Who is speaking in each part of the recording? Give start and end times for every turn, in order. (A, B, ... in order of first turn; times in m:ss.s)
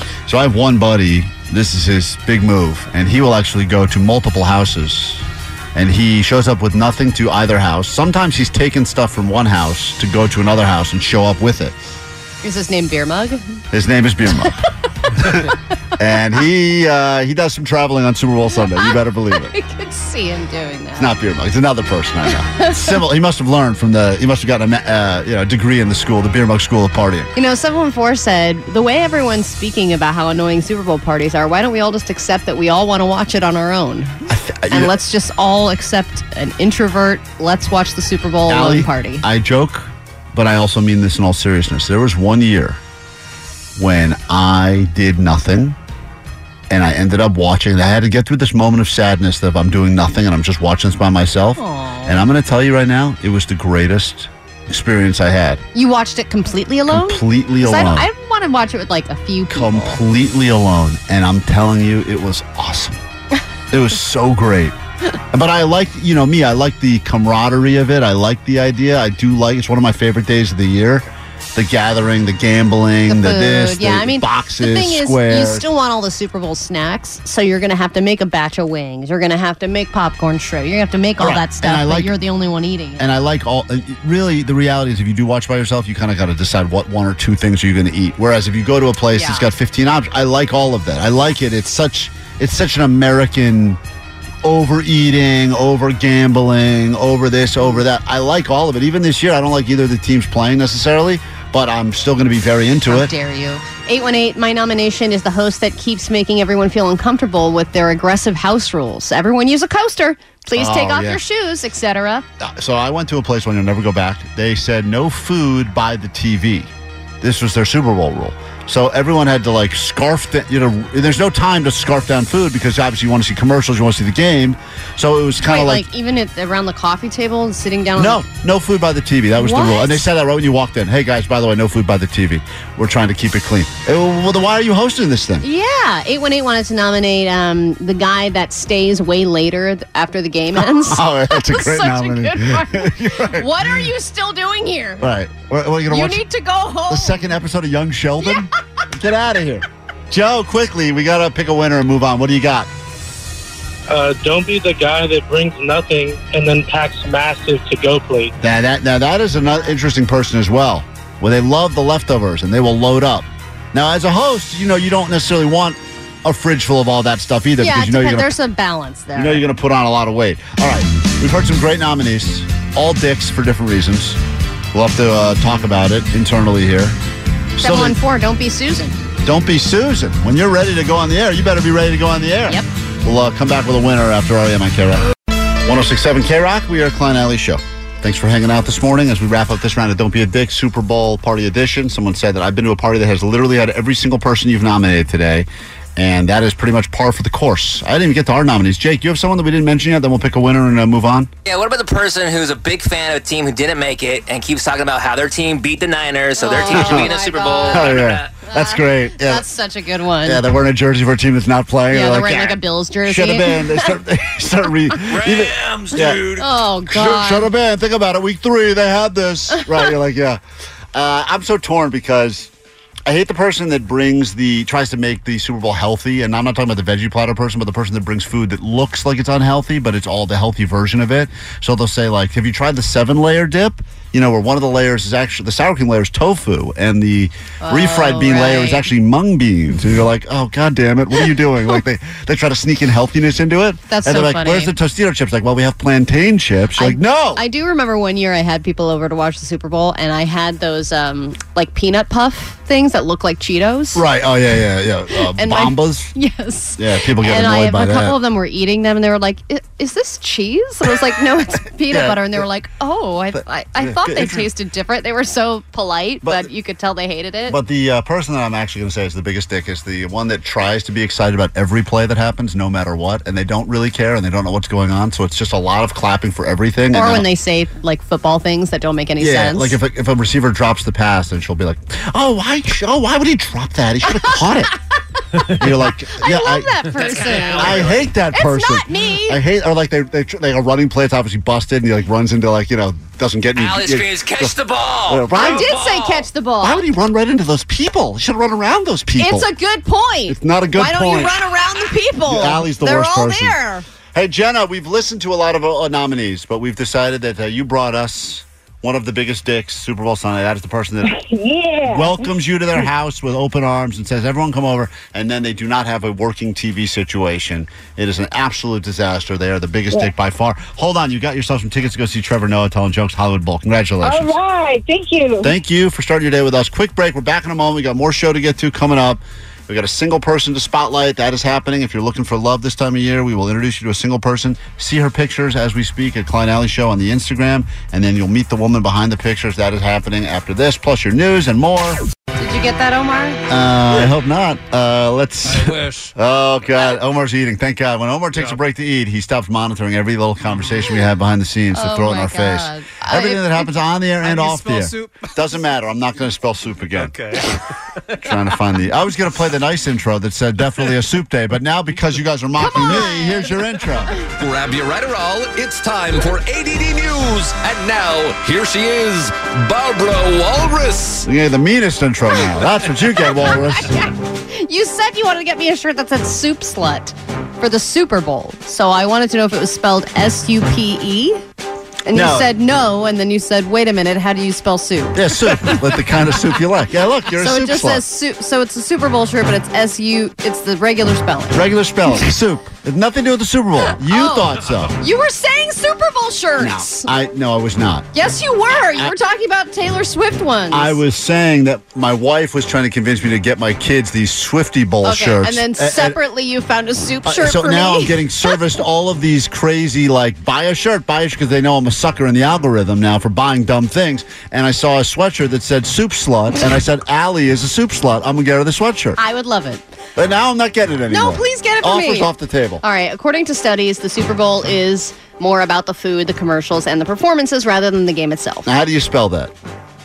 0:00.3-0:05.2 A
0:05.7-0:11.7 A
0:12.4-0:13.6 B
0:13.7-0:14.6 A
0:15.2-0:19.5 A
0:18.6-0:21.1 B
0:21.0-0:27.3 A
0:22.6-0:23.0 B
0:27.3-0:34.2 B
0:34.3-0:34.9 A
0:34.7-0:39.2 B
0:38.5-0:42.8 A
0:43.8-0:45.8 A
0:46.7-0:55.6 A
0:51.6-0:52.2 B
0:55.7-1:00.0 B
0:56.9-0:58.1 A
0:59.5-1:03.0 A
1:03.7-1:04.7 A
1:05.3-1:15.7 A
1:13.1-1:23.0 B
1:21.2-1:22.1 A
1:23.0-1:33.8 A
1:29.1-1:29.5 B
1:34.4-1:43.1 A
1:42.9-1:52.2 B
1:50.5-1:51.2 A
1:52.4-1:56.7 A
1:57.2-2:05.8 A
2:05.5-2:08.2 B
2:08.0-2:15.4 A
2:09.4-2:10.0 B
2:15.4-2:25.0 B
2:20.6-2:23.8 A
2:25.0-2:26.2 A
2:25.9-2:27.3 B
2:26.9-2:32.7 A
2:33.9-2:38.3 C
2:38.4-2:48.3 A
2:47.6-2:49.4 B
2:49.2-2:54.2 A
2:54.7-2:57.0 A
2:57.6-2:58.0 A
2:57.6-2:59.0 B
2:59.2-3:05.0 A
3:05.6-3:21.3 A
3:21.4-3:28.3 D
3:26.4-3:30.4 B
3:26.7-3:27.1 A
3:27.7-3:29.4 A
3:30.2-3:36.3 A
3:31.9-3:33.9 B
3:35.1-3:36.4 D
3:36.0-3:37.5 B
3:36.9-3:40.4 A
3:40.9-3:42.5 A
3:43.0-4:07.4 A
3:57.6-3:58.8 B
4:03.9-4:04.7 B
4:06.8-4:14.0 B
4:13.9-4:16.1 A
4:15.2-4:27.6 B
4:16.8-4:18.2 A
4:21.9-4:22.4 A
4:23.8-4:24.5 A
4:26.2-4:26.5 A
4:27.5-4:37.3 A
4:36.9-4:39.8 B
4:39.2-4:44.7 A
4:45.5-4:54.6 A
4:46.2-4:49.4 B
4:47.0-4:47.9 D
4:53.6-4:56.3 D
4:55.1-4:55.7 A
4:55.3-4:56.8 B
4:56.6-4:59.5 A
4:59.2-5:03.8 B
5:00.3-5:01.4 A
5:02.2-5:03.6 A
5:04.1-5:11.1 A
5:11.0-5:12.3 E
5:11.8-5:24.4 A
5:24.0-5:25.5 E
5:25.4-5:42.0 A
5:42.4-5:43.4 B
5:43.5-5:57.1 A
5:45.5-5:46.0 F
5:45.8-5:46.0 G
5:51.7-5:53.7 B
5:54.2-5:55.3 F
5:57.0-5:57.6 F
5:58.2-6:04.2 A
6:02.6-6:03.6 B
6:04.4-6:11.3 G
6:11.2-6:13.9 A
6:13.1-6:21.4 B
6:22.0-6:25.8 B
6:22.1-6:22.5 A
6:25.1-6:28.0 A
6:27.4-6:31.6 B
6:31.5-6:35.0 A
6:33.8-6:37.1 B
6:36.6-6:38.1 A
6:38.1-6:41.0 B
6:40.7-6:46.2 A
6:45.0-6:48.6 B
6:47.2-6:59.2 A
6:59.2-6:59.8 B
7:00.2-7:02.8 A
7:01.1-7:02.3 B
7:02.8-7:08.7 B
7:08.6-7:09.5 A